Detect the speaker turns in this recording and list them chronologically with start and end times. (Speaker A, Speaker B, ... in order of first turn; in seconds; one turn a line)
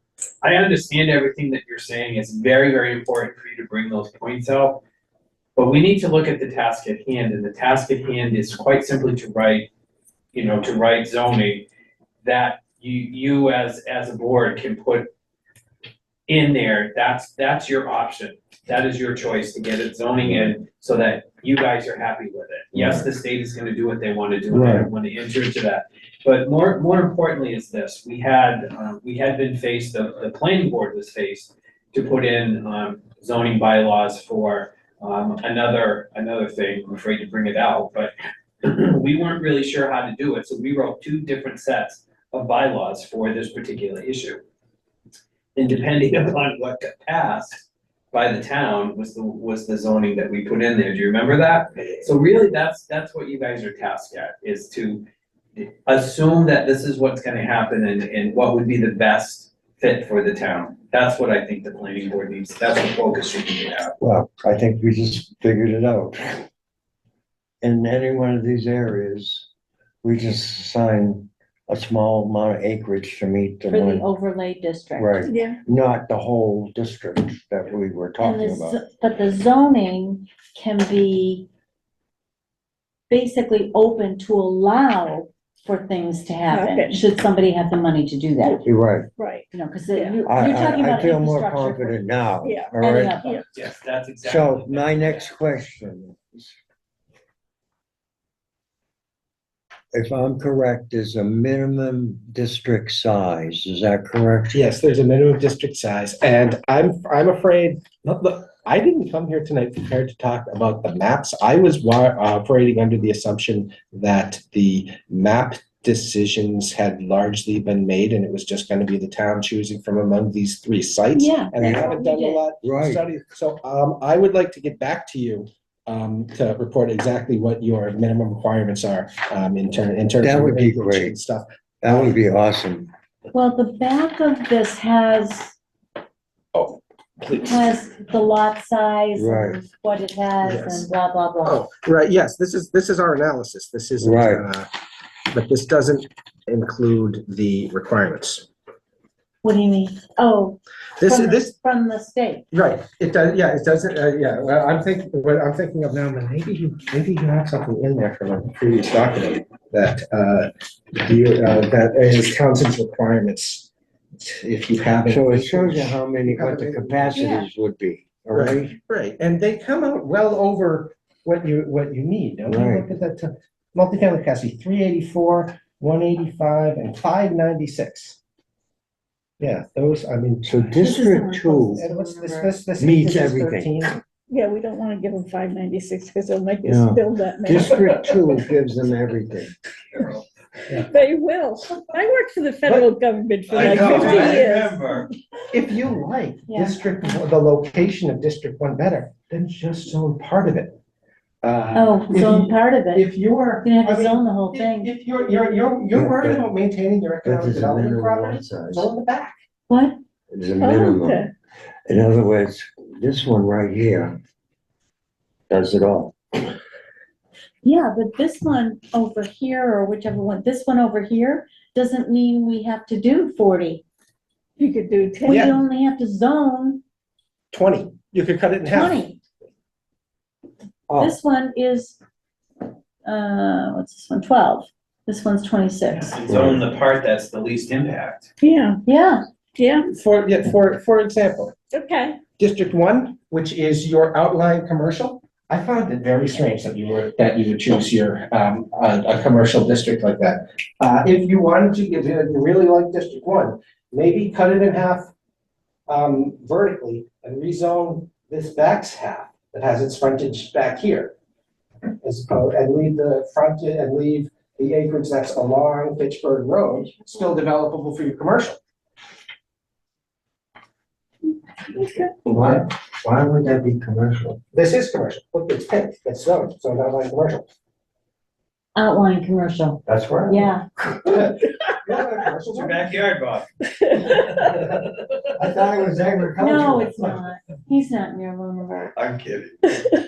Speaker A: 0.4-4.8
Speaker A: 5.6-9.7
Speaker A: 10.3-11.7
Speaker A: 12.2-15.1
Speaker A: 16.3-44.4
Speaker B: 22.7-23.1
Speaker B: 24.5-24.9
Speaker A: 45.6-47.6
Speaker A: 48.1-55.0
Speaker A: 55.6-63.9
Speaker B: 64.0-66.5
Speaker B: 67.6-69.5
Speaker B: 70.0-74.1
Speaker C: 73.7-75.4
Speaker B: 75.0-78.8
Speaker D: 75.3-75.6
Speaker C: 78.2-81.5
Speaker C: 83.1-88.7
Speaker D: 86.5-87.1
Speaker B: 88.7-89.1
Speaker D: 89.2-90.2
Speaker C: 89.5-92.0
Speaker B: 90.3-93.2
Speaker D: 92.4-93.5
Speaker C: 92.8-93.4
Speaker A: 93.5-95.3
Speaker B: 94.2-96.6
Speaker B: 99.9-104.6
Speaker E: 104.5-132.2
Speaker C: 121.1-122.4
Speaker B: 122.6-123.0
Speaker B: 130.2-131.2
Speaker B: 131.8-132.9
Speaker C: 133.3-135.6
Speaker E: 136.5-137.3
Speaker C: 137.3-141.7
Speaker B: 139.2-139.6
Speaker E: 140.4-140.9
Speaker E: 141.4-144.7
Speaker B: 144.0-144.4
Speaker E: 145.3-148.5
Speaker C: 149.4-152.5
Speaker E: 151.0-151.5
Speaker E: 152.5-167.4
Speaker B: 165.1-168.7
Speaker C: 167.1-167.5
Speaker E: 168.3-178.2
Speaker B: 172.5-172.9
Speaker E: 179.4-184.0
Speaker B: 180.4-181.9
Speaker C: 180.8-182.7
Speaker B: 182.8-183.8
Speaker D: 184.3-188.1
Speaker B: 186.6-189.5
Speaker A: 189.9-190.2
Speaker D: 190.7-195.1
Speaker A: 193.5-195.1
Speaker E: 193.6-194.5
Speaker B: 193.6-194.4
Speaker E: 195.5-200.8
Speaker C: 196.5-197.2
Speaker E: 201.4-209.4
Speaker C: 201.7-203.1
Speaker C: 203.6-205.0
Speaker B: 205.9-206.4
Speaker B: 207.2-208.9
Speaker C: 209.7-210.0
Speaker B: 210.3-211.3
Speaker D: 210.6-211.3
Speaker B: 211.9-214.2
Speaker B: 215.5-216.5
Speaker C: 217.6-223.8
Speaker D: 224.6-225.5
Speaker E: 225.2-225.6
Speaker C: 225.4-226.8
Speaker E: 227.5-229.1
Speaker C: 228.7-229.2
Speaker B: 230.9-231.1
Speaker C: 230.9-232.0
Speaker C: 233.1-236.2
Speaker A: 235.9-238.3
Speaker B: 236.3-236.6
Speaker D: 238.4-238.8
Speaker C: 238.9-239.2
Speaker D: 239.6-239.9
Speaker E: 239.9-241.5
Speaker D: 241.7-242.2
Speaker E: 242.4-255.1
Speaker E: 255.9-261.1
Speaker E: 262.0-268.6
Speaker D: 271.7-272.1
Speaker B: 272.3-274.4
Speaker E: 272.3-272.6
Speaker E: 274.5-277.5
Speaker C: 278.8-280.6
Speaker B: 279.9-280.6
Speaker E: 281.1-282.8
Speaker A: 282.5-284.8
Speaker D: 284.0-284.3
Speaker B: 285.4-287.3
Speaker C: 286.4-288.9
Speaker B: 288.9-289.6